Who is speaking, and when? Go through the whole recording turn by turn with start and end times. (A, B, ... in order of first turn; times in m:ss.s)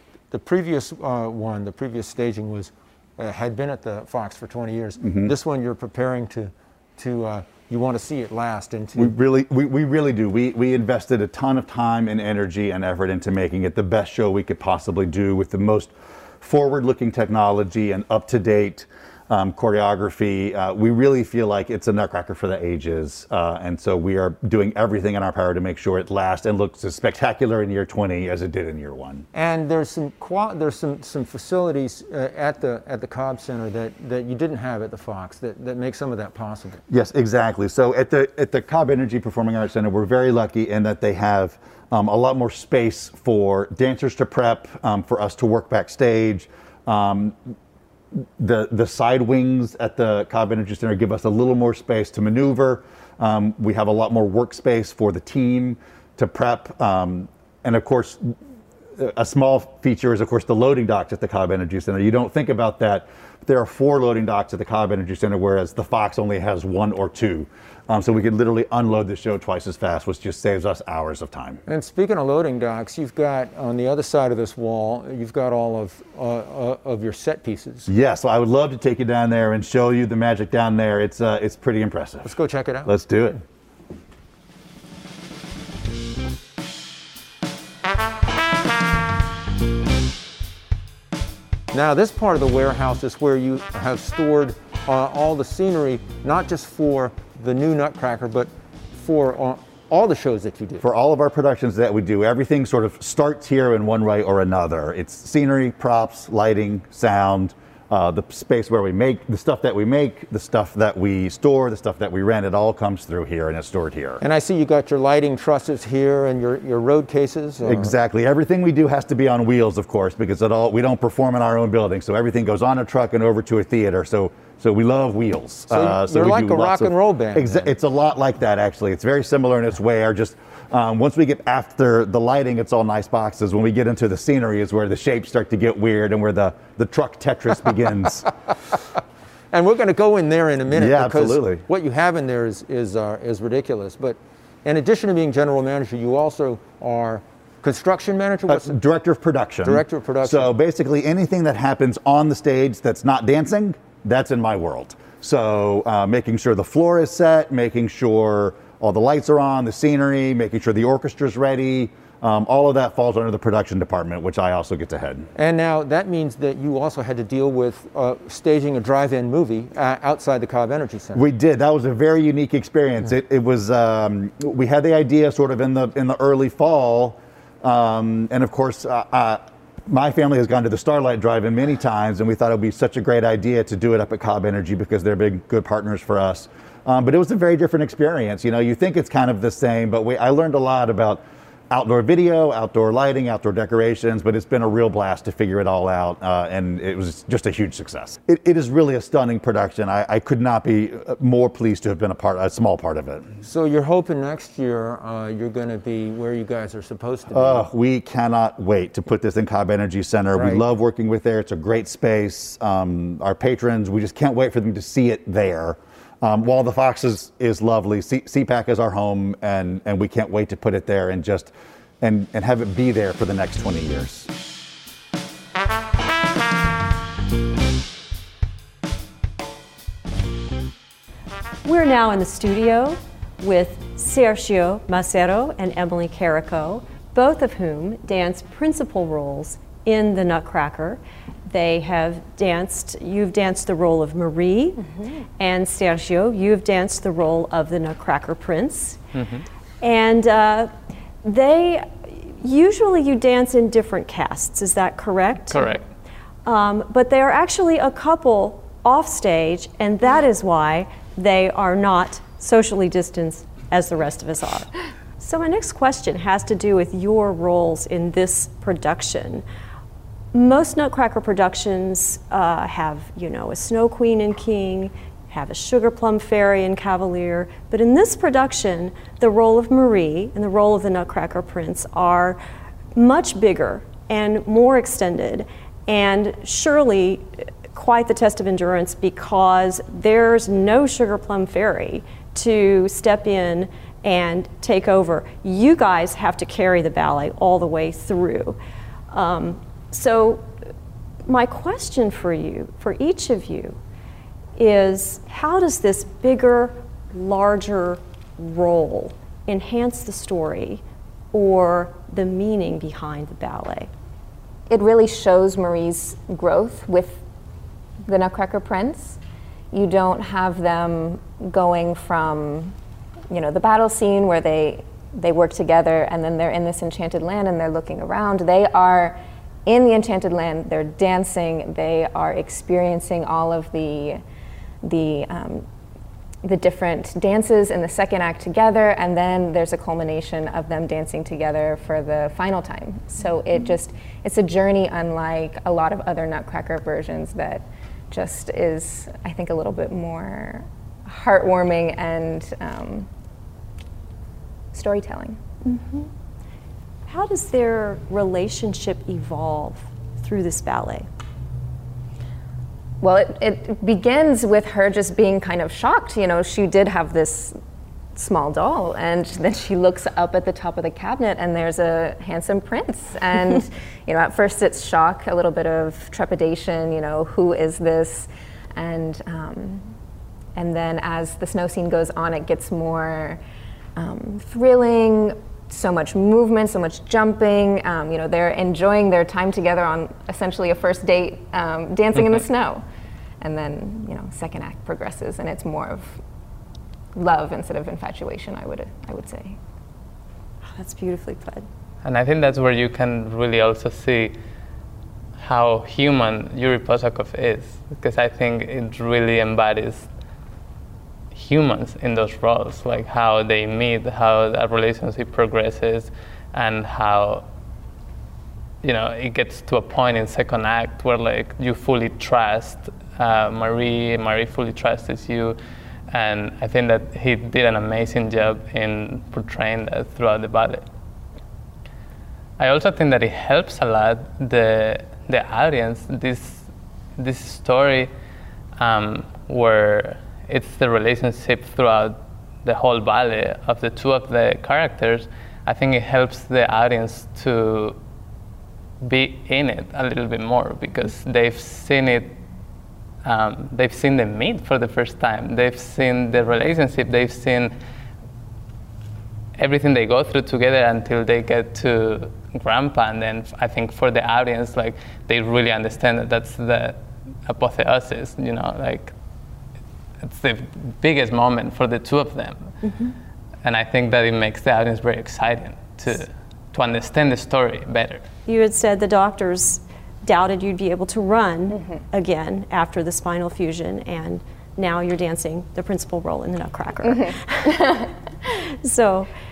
0:00.3-0:09.1 A
0:05.0-0:05.3 B
0:09.0-0:29.2 B
0:29.3-0:36.8 A
0:36.9-0:47.5 B
0:48.4-0:58.3 B
0:59.0-1:11.6 B
1:11.6-1:17.9 A
1:17.9-1:22.3 B
1:22.2-1:22.9 A
1:22.8-1:23.4 B
1:31.7-1:40.8 A
1:40.8-1:54.2 B
1:54.2-1:57.9 A
1:57.6-2:18.2 B
2:05.7-2:07.7 A
2:19.5-2:28.7 A
2:20.7-2:21.6 B
2:28.5-2:45.3 B
2:29.6-2:30.5 A
2:45.4-2:51.2 A
2:51.1-3:23.3 B
3:23.4-3:27.7 A
3:27.3-3:44.3 B
3:30.4-3:30.6 A
3:51.6-4:04.8 C
4:05.4-4:09.0 C
4:09.1-4:09.4 D
4:09.8-4:10.7 C
4:11.2-4:15.7 C
4:15.5-4:15.8 D
4:16.4-4:24.7 C
4:25.2-4:29.4 C
4:30.3-4:42.4 C
4:42.9-4:58.6 C
4:59.1-5:00.4 C
5:01.3-5:03.8 C
5:04.6-5:13.9 C
5:14.7-5:17.2 E
5:18.0-5:19.2 E
5:19.7-5:22.8 E
5:23.3-5:34.2 E
5:34.8-5:35.6 E
5:36.4-5:53.1 E
5:54.7-5:55.4 E
5:55.6-5:56.1 C
5:57.1-6:01.1 C
6:03.0-6:07.6 E
6:08.1-6:19.9 E
6:20.6-6:23.4 E
6:24.0-6:32.8 E
6:33.4-6:36.2 E
6:37.1-6:39.6 E
6:40.7-6:41.6 C
6:42.0-6:44.4 D
6:45.4-6:50.1 D
6:51.3-6:57.4 D
6:58.8-7:05.6 D
7:06.1-7:10.8 D
7:12.6-7:18.1 D
7:18.8-7:28.0 D
7:29.0-7:32.4 D
7:33.2-7:37.7 D
7:39.6-7:49.1 D
7:50.2-7:52.7 D
7:52.8-7:53.1 C
7:53.6-7:58.2 D
7:58.4-8:08.0 C
8:08.8-8:09.3 C